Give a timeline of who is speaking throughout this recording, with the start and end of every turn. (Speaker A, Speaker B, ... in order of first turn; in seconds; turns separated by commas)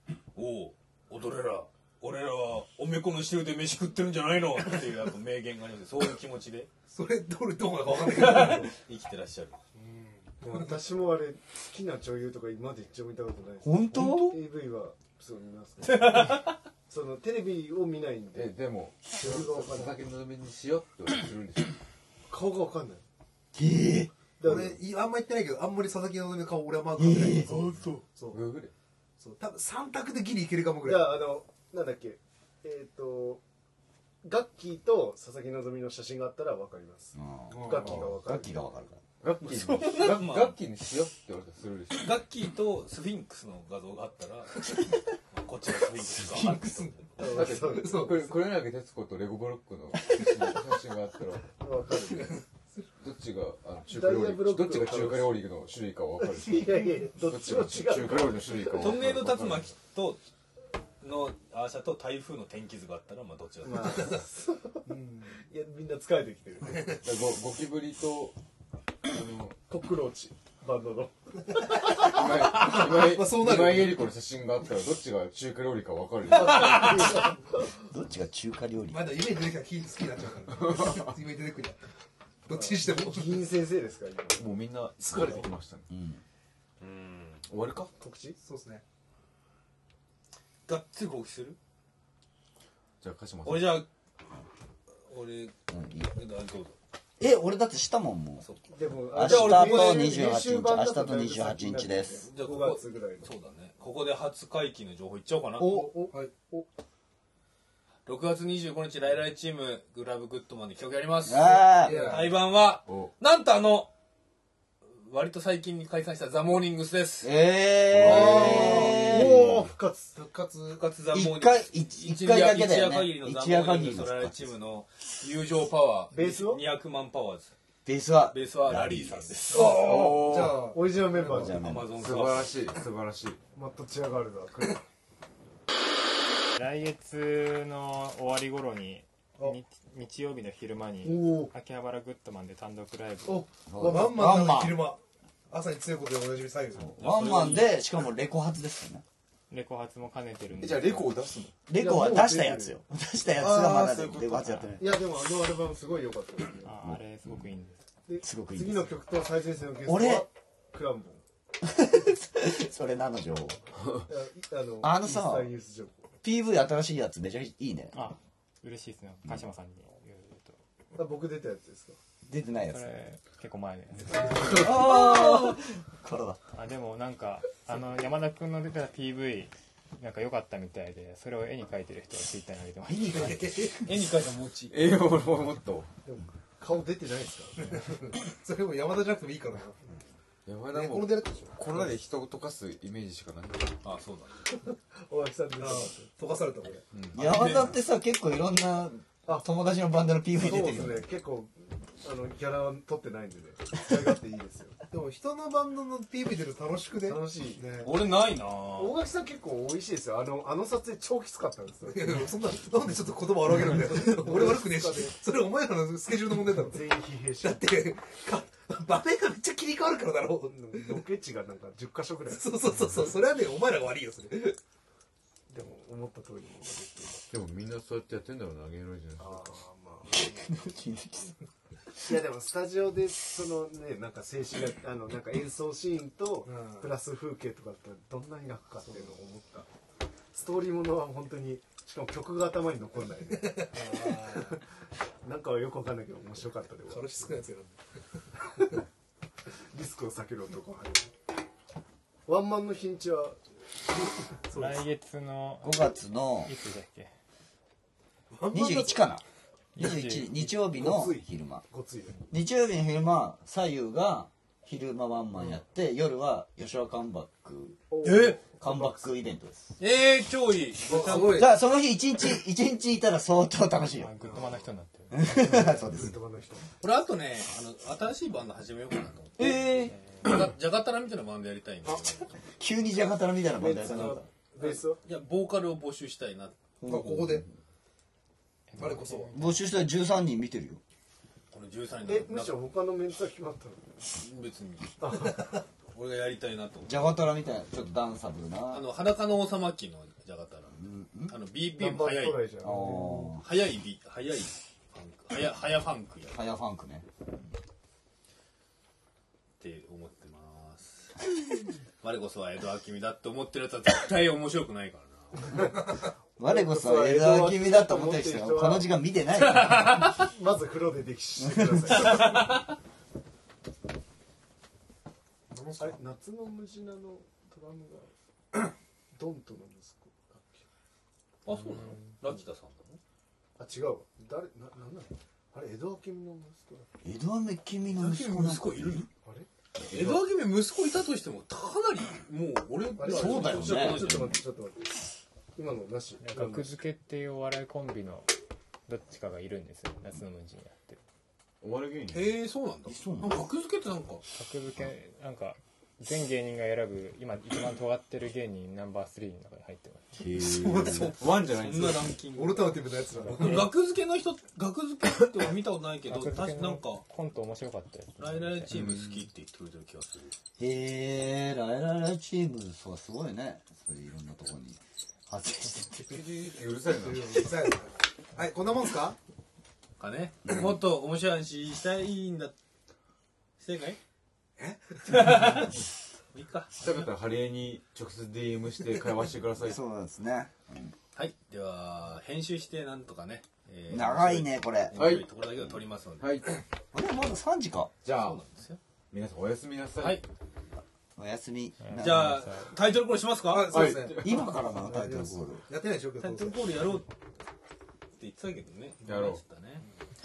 Speaker A: 0.3-6.7, Speaker B: 6.9-8.7, Speaker A: 7.9-9.6, Speaker B: 9.8-10.6, Speaker C: 10.4-20.0, Speaker D: 13.6-14.4, Speaker A: 14.0-14.3, Speaker A: 15.8-16.6, Speaker E: 18.3-21.8, Speaker C: 22.3-23.0, Speaker D: 23.6-24.1, Speaker C: 24.4-24.8, Speaker B: 24.4-28.4, Speaker D: 27.0-27.9, Speaker E: 28.3-28.7, Speaker B: 29.2-31.2, Speaker C: 30.8-33.4, Speaker C: 34.2-38.6, Speaker D: 37.2-39.0, Speaker B: 37.5-37.9, Speaker E: 37.8-38.1, Speaker E: 39.2-42.2, Speaker A: 39.4-40.6, Speaker A: 41.9-44.6, Speaker A: 45.3-46.8, Speaker D: 46.0-46.9, Speaker B: 46.4-48.4, Speaker C: 47.2-48.2, Speaker E: 47.2-51.5, Speaker C: 51.6-52.4, Speaker E: 53.0-59.7, Speaker C: 53.9-55.4, Speaker C: 56.2-59.1, Speaker A: 58.8-60.2, Speaker A: 61.0-64.2, Speaker C: 63.6-64.9, Speaker B: 64.9-65.4, Speaker C: 65.5-66.9, Speaker B: 66.6-67.0, Speaker E: 67.0-68.4, Speaker E: 69.1-69.6, Speaker C: 69.7-71.2, Speaker E: 71.9-77.0, Speaker B: 72.0-74.1, Speaker C: 76.3-77.7, Speaker A: 76.5-77.1, Speaker D: 77.8-79.1, Speaker B: 78.9-81.8, Speaker E: 80.5-81.2, Speaker B: 82.5-83.5, Speaker C: 82.5-84.5, Speaker E: 84.4-85.9, Speaker C: 85.1-85.5, Speaker D: 85.9-86.2, Speaker A: 86.8-87.5, Speaker E: 87.5-87.9, Speaker C: 88.0-88.4, Speaker B: 88.4-88.8, Speaker A: 90.7-91.6, Speaker E: 93.0-93.8, Speaker A: 93.5-93.9, Speaker A: 95.0-96.8, Speaker D: 95.7-96.1, Speaker D: 97.2-98.5, Speaker C: 98.7-103.3, Speaker D: 99.1-102.3, Speaker A: 99.2-100.1, Speaker A: 102.3-105.9, Speaker C: 105.6-106.7, Speaker B: 106.1-106.4, Speaker A: 108.1-113.9, Speaker D: 111.3-112.1, Speaker B: 111.8-112.4, Speaker E: 112.8-113.1, Speaker A: 114.9-117.4, Speaker D: 117.2-119.7, Speaker A: 117.9-119.1, Speaker C: 118.0-120.1, Speaker B: 119.2-119.5, Speaker B: 120.1-120.9, Speaker A: 120.7-127.5, Speaker D: 121.1-124.5, Speaker C: 126.1-126.7, Speaker D: 127.8-129.5, Speaker A: 128.3-129.8, Speaker B: 129.5-130.8, Speaker C: 129.5-131.6, Speaker E: 129.6-130.7, Speaker D: 131.2-132.0, Speaker A: 131.2-132.5, Speaker E: 132.0-133.4, Speaker C: 133.6-134.8, Speaker F: 136.6-143.5, Speaker C: 141.0-141.5, Speaker C: 143.3-144.1, Speaker D: 143.7-144.8, Speaker B: 143.8-146.9, Speaker D: 146.8-149.0, Speaker A: 146.9-147.8, Speaker F: 149.5-151.2, Speaker E: 150.6-151.6, Speaker D: 151.7-154.9, Speaker C: 151.7-152.8, Speaker E: 153.3-154.7, Speaker C: 154.8-156.8, Speaker F: 156.6-157.8, Speaker C: 158.1-161.2, Speaker D: 158.2-158.9, Speaker D: 159.8-160.3, Speaker D: 161.6-163.6, Speaker C: 164.1-166.1, Speaker D: 164.8-165.5, Speaker D: 166.2-168.0, Speaker F: 167.9-170.6, Speaker C: 170.9-172.0, Speaker D: 172.3-172.9, Speaker F: 172.7-174.8, Speaker D: 174.4-176.4, Speaker A: 174.5-175.6, Speaker F: 176.5-183.5, Speaker D: 182.8-183.7, Speaker B: 183.1-183.9, Speaker A: 183.8-184.8, Speaker E: 184.7-185.9, Speaker C: 186.1-188.0, Speaker B: 187.7-189.8, Speaker E: 190.5-193.8, Speaker B: 190.7-191.8, Speaker A: 193.8-194.5, Speaker C: 195.1-196.5, Speaker B: 195.6-196.9, Speaker E: 196.9-197.2, Speaker A: 197.1-197.8, Speaker D: 197.1-201.1, Speaker C: 200.4-204.8, Speaker B: 204.9-207.9, Speaker C: 207.0-207.9, Speaker A: 207.8-209.0, Speaker C: 208.7-212.2, Speaker B: 211.9-216.8, Speaker C: 214.0-215.2, Speaker C: 216.6-217.7, Speaker B: 217.4-221.0, Speaker C: 220.5-222.5, Speaker B: 222.3-224.6, Speaker C: 225.5-227.2, Speaker E: 227.3-229.6, Speaker C: 229.2-230.6, Speaker D: 230.2-231.4, Speaker C: 232.0-239.7, Speaker B: 236.4-236.9, Speaker B: 238.9-239.1, Speaker C: 240.3-244.6, Speaker B: 243.4-244.6, Speaker C: 245.2-247.4, Speaker B: 246.9-247.8, Speaker C: 249.7-251.1, Speaker C: 252.3-253.4, Speaker B: 254.5-254.9, Speaker F: 254.5-257.1, Speaker D: 255.6-256.5, Speaker B: 258.3-259.1, Speaker D: 258.5-259.2, Speaker F: 259.8-260.4, Speaker D: 259.8-261.6, Speaker C: 260.5-262.2, Speaker D: 262.3-267.8, Speaker C: 267.9-269.0, Speaker A: 268.0-268.4, Speaker D: 268.6-269.8, Speaker A: 269.8-271.5, Speaker B: 270.9-271.5, Speaker D: 271.0-274.1, Speaker F: 274.0-275.4, Speaker B: 274.2-274.7, Speaker D: 275.1-276.2, Speaker C: 275.4-276.7, Speaker A: 276.8-279.7, Speaker D: 279.4-280.0, Speaker A: 280.2-282.3, Speaker D: 282.6-284.2, Speaker C: 283.5-285.0, Speaker A: 284.6-286.6, Speaker D: 286.8-287.4, Speaker B: 286.9-287.5, Speaker F: 288.7-289.6, Speaker B: 288.8-289.4, Speaker D: 289.3-290.8, Speaker A: 291.5-292.6, Speaker C: 292.1-294.0, Speaker A: 294.2-295.3, Speaker C: 295.0-295.6, Speaker A: 295.9-297.1, Speaker D: 296.9-298.9, Speaker A: 298.7-302.5, Speaker D: 300.7-301.4, Speaker C: 301.7-303.3, Speaker D: 302.6-303.4, Speaker A: 303.3-306.4, Speaker D: 306.3-307.1, Speaker A: 309.6-311.2, Speaker A: 312.0-315.7, Speaker D: 316.4-320.1, Speaker C: 316.4-318.9, Speaker A: 319.4-320.1, Speaker C: 320.1-322.4, Speaker D: 321.4-322.2, Speaker A: 322.0-322.6, Speaker B: 325.5-326.0, Speaker C: 325.8-328.1, Speaker C: 329.1-330.6, Speaker A: 331.4-333.0, Speaker C: 333.6-336.9, Speaker D: 337.0-339.1, Speaker A: 337.9-339.1, Speaker A: 339.9-344.4, Speaker C: 343.0-345.0, Speaker D: 343.0-344.3, Speaker C: 345.6-346.8, Speaker F: 346.2-348.3, Speaker F: 348.9-351.0, Speaker E: 351.6-352.4, Speaker A: 352.1-354.2, Speaker D: 352.9-353.5, Speaker F: 354.3-360.3, Speaker E: 360.2-362.1, Speaker A: 360.4-367.1, Speaker B: 362.3-363.7, Speaker F: 366.1-368.8, Speaker A: 368.2-370.4, Speaker E: 368.7-369.2, Speaker D: 370.6-376.2, Speaker E: 376.1-377.5, Speaker B: 376.8-379.2, Speaker A: 380.0-382.6, Speaker A: 383.6-384.0, Speaker B: 384.6-385.7, Speaker A: 385.1-385.8, Speaker A: 386.3-387.1, Speaker E: 386.8-389.8, Speaker D: 389.6-390.9, Speaker A: 391.1-396.3, Speaker D: 393.9-395.0, Speaker E: 394.9-395.3, Speaker E: 396.2-396.5, Speaker D: 396.9-397.9, Speaker E: 398.0-398.4, Speaker A: 398.1-398.8, Speaker E: 399.1-400.2, Speaker A: 400.0-400.2, Speaker D: 401.2-402.5, Speaker F: 401.8-402.7, Speaker A: 401.9-403.8, Speaker B: 403.5-406.7, Speaker E: 403.7-404.5, Speaker D: 404.2-405.6, Speaker A: 406.2-407.1, Speaker A: 408.2-409.8, Speaker E: 409.1-409.4